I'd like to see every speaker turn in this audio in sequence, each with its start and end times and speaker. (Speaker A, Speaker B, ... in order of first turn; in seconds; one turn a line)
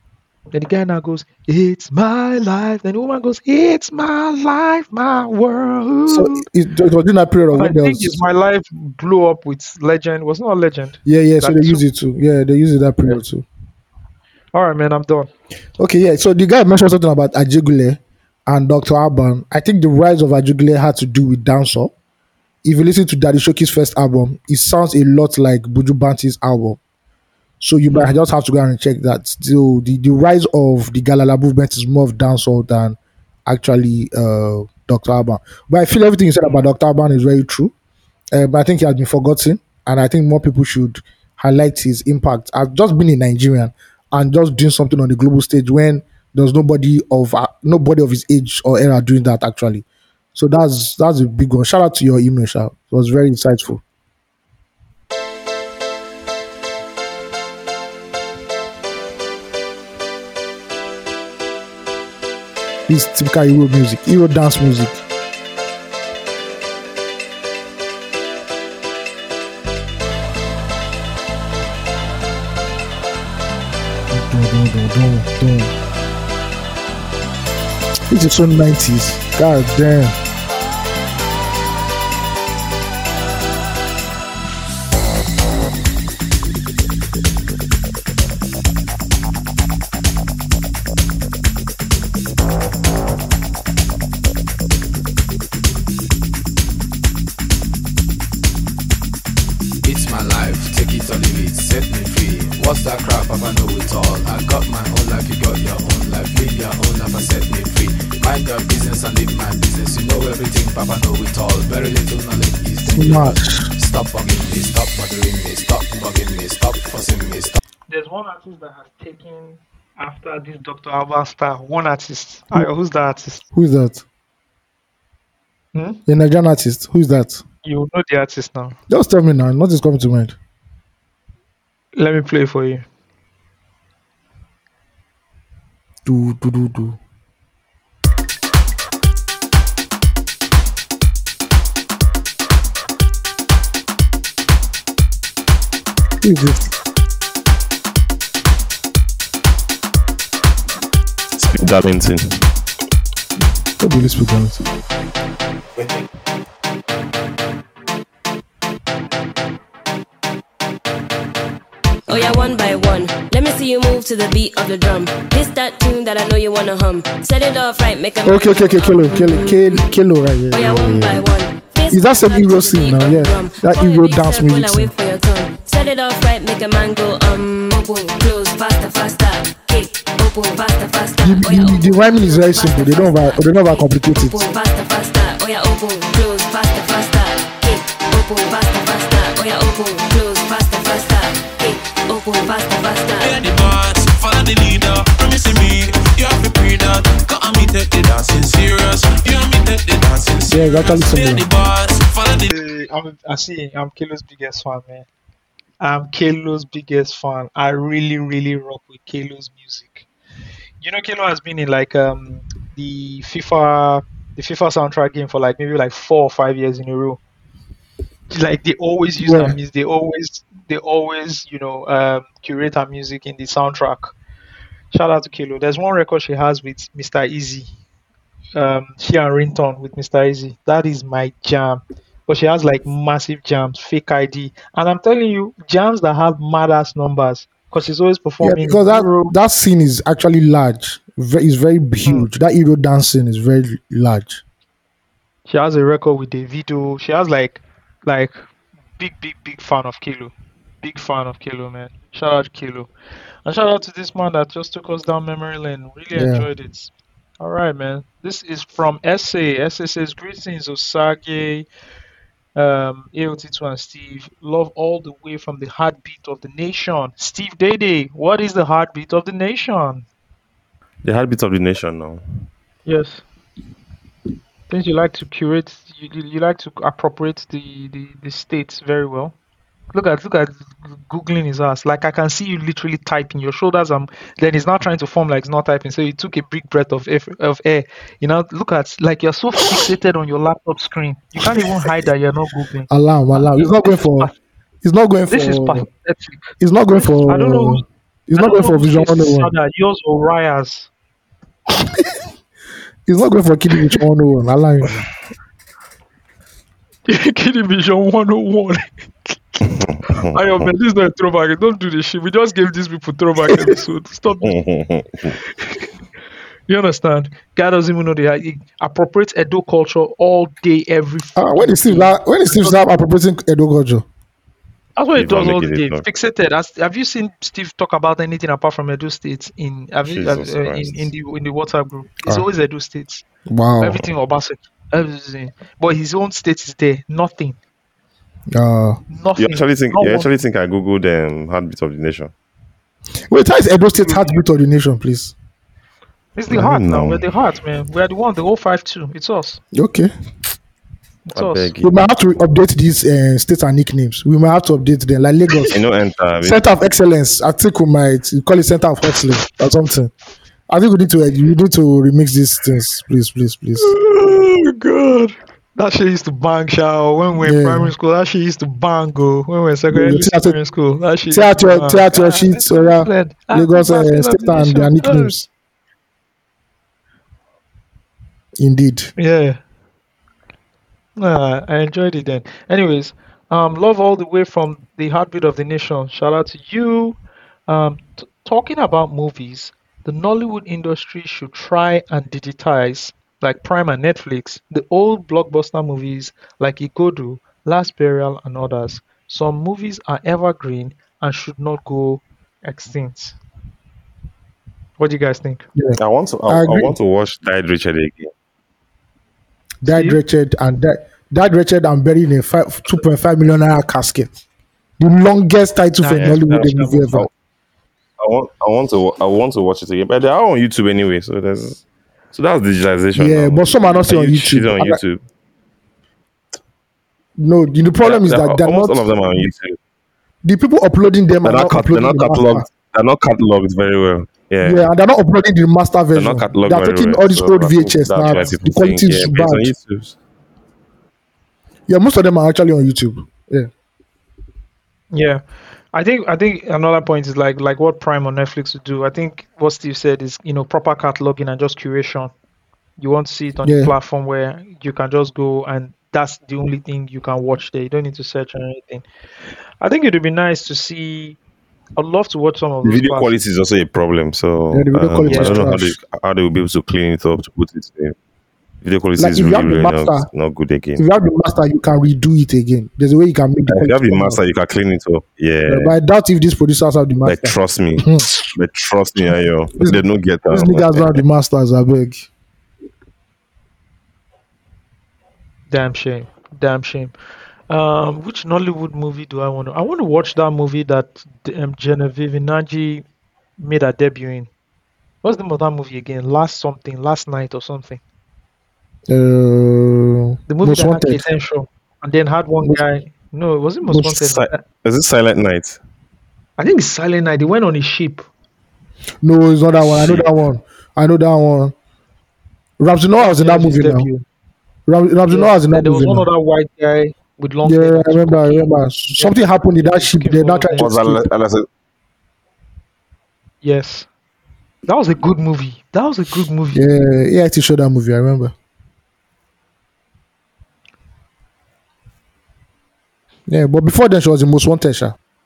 Speaker A: 0.5-6.4
Speaker B: 6.1-8.2
Speaker A: 7.5-11.8
Speaker B: 11.1-13.4
Speaker A: 14.5-15.3
Speaker B: 15.8-21.9
Speaker B: 22.6-26.8
Speaker B: 27.6-37.7
Speaker A: 27.9-28.2
Speaker B: 38.3-53.8
Speaker B: 62.9-65.0
Speaker B: 74.1-75.7
Speaker B: 78.1-80.2
Speaker C: 99.8-117.6
Speaker B: 112.9-113.7
Speaker A: 117.9-123.4
Speaker B: 123.5-124.0
Speaker A: 125.7-126.0
Speaker B: 126.0-127.4
Speaker A: 127.6-128.8
Speaker B: 128.9-130.3
Speaker A: 131.9-132.8
Speaker B: 136.0-137.0
Speaker B: 146.2-146.7
Speaker D: 151.3-152.4
Speaker B: 153.8-154.6
Speaker E: 162.1-169.8
Speaker B: 168.2-171.2
Speaker E: 170.5-193.4
Speaker B: 171.9-174.9
Speaker B: 181.2-184.4
Speaker F: 193.2-202.5
Speaker B: 200.5-201.4
Speaker A: 202.5-205.1
Speaker A: 205.8-210.1
Speaker A: 210.8-217.2
Speaker A: 218.3-224.1
Speaker B: 219.2-219.6
Speaker A: 224.9-227.7
Speaker A: 228.5-239.3
Speaker B: 238.4-244.4
Speaker A: 245.5-248.3
Speaker A: 249.0-252.9
Speaker A: 253.4-261.6
Speaker B: 256.1-256.5
Speaker A: 262.6-270.0
Speaker D: 271.0-272.2
Speaker A: 272.9-273.2
Speaker A: 274.7-279.3
Speaker A: 279.9-294.3
Speaker B: 292.9-294.3
Speaker B: 294.8-295.9
Speaker A: 295.3-297.8
Speaker B: 296.6-299.5
Speaker A: 298.4-300.9
Speaker B: 301.7-302.0
Speaker B: 303.1-305.0
Speaker A: 307.1-309.7
Speaker D: 310.1-310.7
Speaker A: 310.3-314.6
Speaker D: 314.4-315.4
Speaker A: 316.7-322.8
Speaker B: 321.4-324.0
Speaker A: 324.9-333.2
Speaker D: 325.2-326.0
Speaker D: 330.0-331.1
Speaker B: 333.5-334.0
Speaker A: 333.8-337.6
Speaker B: 338.5-339.0
Speaker A: 339.1-340.3
Speaker D: 339.4-342.3
Speaker B: 343.3-345.3
Speaker A: 343.9-344.4
Speaker A: 346.3-349.6
Speaker D: 346.5-347.2
Speaker B: 349.7-350.1
Speaker A: 351.2-351.7
Speaker D: 351.3-352.0
Speaker B: 351.8-355.8
Speaker D: 355.7-356.6
Speaker B: 356.4-360.1
Speaker B: 360.7-363.9
Speaker A: 363.8-375.4
Speaker B: 367.4-367.9
Speaker B: 369.9-370.6
Speaker B: 371.3-375.5
Speaker B: 378.6-379.1
Speaker A: 379.2-379.6
Speaker A: 381.2-387.2
Speaker A: 387.7-403.4
Speaker A: 405.0-405.6
Speaker B: 405.7-406.9
Speaker D: 406.0-408.3
Speaker B: 409.8-414.4
Speaker A: 409.8-410.2
Speaker B: 415.0-417.3
Speaker A: 416.0-417.1
Speaker D: 416.1-417.3
Speaker D: 418.2-425.2
Speaker B: 423.1-425.0
Speaker B: 427.4-429.5
Speaker D: 428.0-429.8
Speaker B: 430.4-432.6
Speaker D: 431.4-434.9
Speaker B: 434.6-439.7
Speaker D: 436.1-440.1
Speaker B: 441.9-443.7
Speaker A: 445.1-452.3
Speaker A: 453.0-459.0
Speaker B: 453.6-453.9
Speaker A: 459.8-461.4
Speaker A: 462.0-463.4
Speaker D: 462.8-468.1
Speaker B: 464.7-465.9
Speaker A: 465.2-465.7
Speaker D: 468.8-471.0
Speaker B: 469.2-470.3
Speaker B: 471.0-474.4
Speaker D: 473.7-475.9
Speaker B: 475.7-478.2
Speaker D: 477.2-481.2
Speaker B: 479.8-482.3
Speaker A: 485.7-487.1
Speaker A: 487.7-493.0
Speaker A: 493.6-494.5
Speaker A: 495.2-498.0
Speaker B: 499.1-501.2
Speaker A: 500.5-504.6
Speaker B: 503.9-504.2
Speaker D: 504.2-505.8
Speaker A: 506.6-508.3
Speaker B: 509.2-511.7
Speaker D: 509.8-510.3
Speaker B: 512.8-514.1
Speaker A: 513.2-514.2
Speaker B: 514.9-516.3
Speaker A: 515.3-521.0
Speaker B: 517.6-521.2
Speaker D: 520.8-521.6
Speaker A: 523.6-524.1
Speaker A: 524.9-526.8
Speaker B: 526.7-528.5
Speaker B: 533.5-535.1